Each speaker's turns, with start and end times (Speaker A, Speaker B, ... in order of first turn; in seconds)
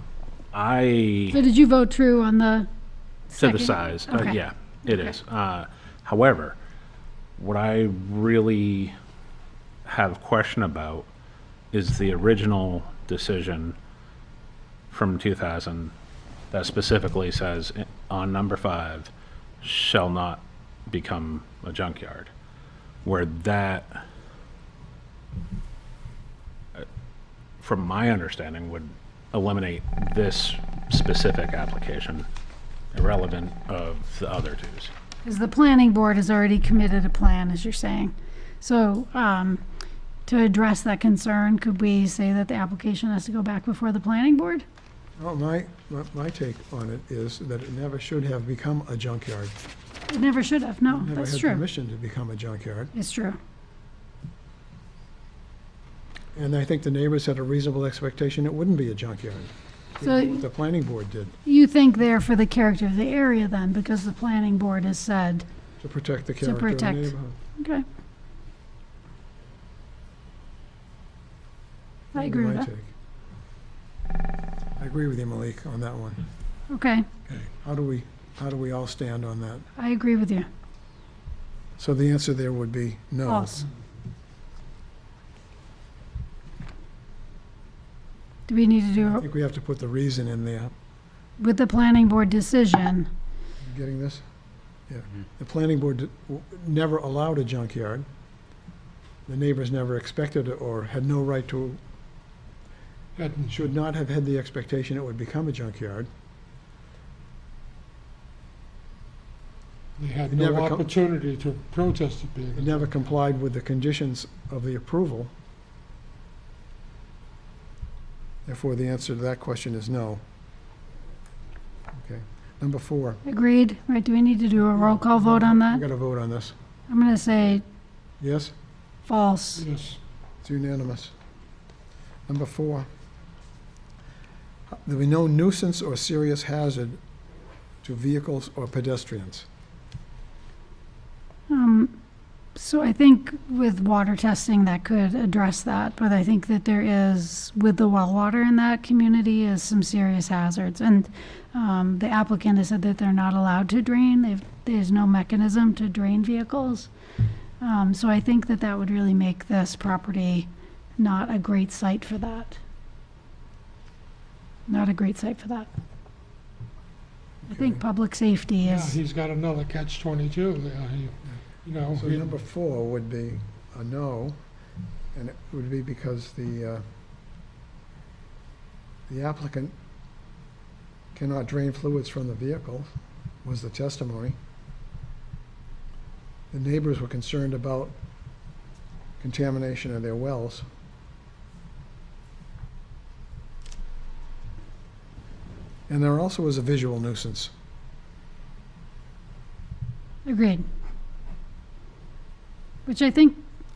Speaker A: 0.5-1.4, 3.4-6.6, 7.4-8.9, 9.8-11.1, 11.7-13.8, 14.9-15.9, 16.5-19.1, 19.6-22.3, 23.0-24.0, 27.6-32.2, 32.9-34.9
Speaker B: 1.3-2.7, 3.3-5.1, 35.2-39.6, 40.2-44.6, 50.1-51.6, 52.9-53.4, 60.0-60.4, 61.5-65.4, 66.4-67.8, 72.1-72.7, 76.7-77.0, 79.8-80.5, 83.2-83.7, 88.5-89.2, 91.4-93.1, 123.2-125.8, 126.9-127.6, 129.1-129.6, 141.5-141.9, 142.6-156.9, 157.6-162.6, 164.7-165.7, 167.5-169.0, 200.2-200.6, 202.8-203.4
Speaker C: 45.2-49.5, 50.9-52.9, 56.3-61.4, 65.8-67.3, 72.1-72.9, 74.8-76.2, 77.6-79.7, 81.8-83.6, 89.0-90.7, 93.6-94.2, 94.9-98.1, 99.3-101.8, 103.5-106.1, 110.3-110.9, 112.5-115.3, 118.5-120.2, 122.0-123.2, 125.0-126.5, 128.2-128.5, 130.4-131.1, 132.3-132.9, 134.8-137.0, 137.8-139.5, 167.4-167.8, 171.9-174.4, 175.1-176.8, 179.1-179.7, 181.1-182.9, 183.4-184.4, 186.5-187.9, 189.2-190.7, 195.9-197.5
Speaker D: 103.2-103.7, 110.0-112.8, 129.6-130.0, 168.6-172.3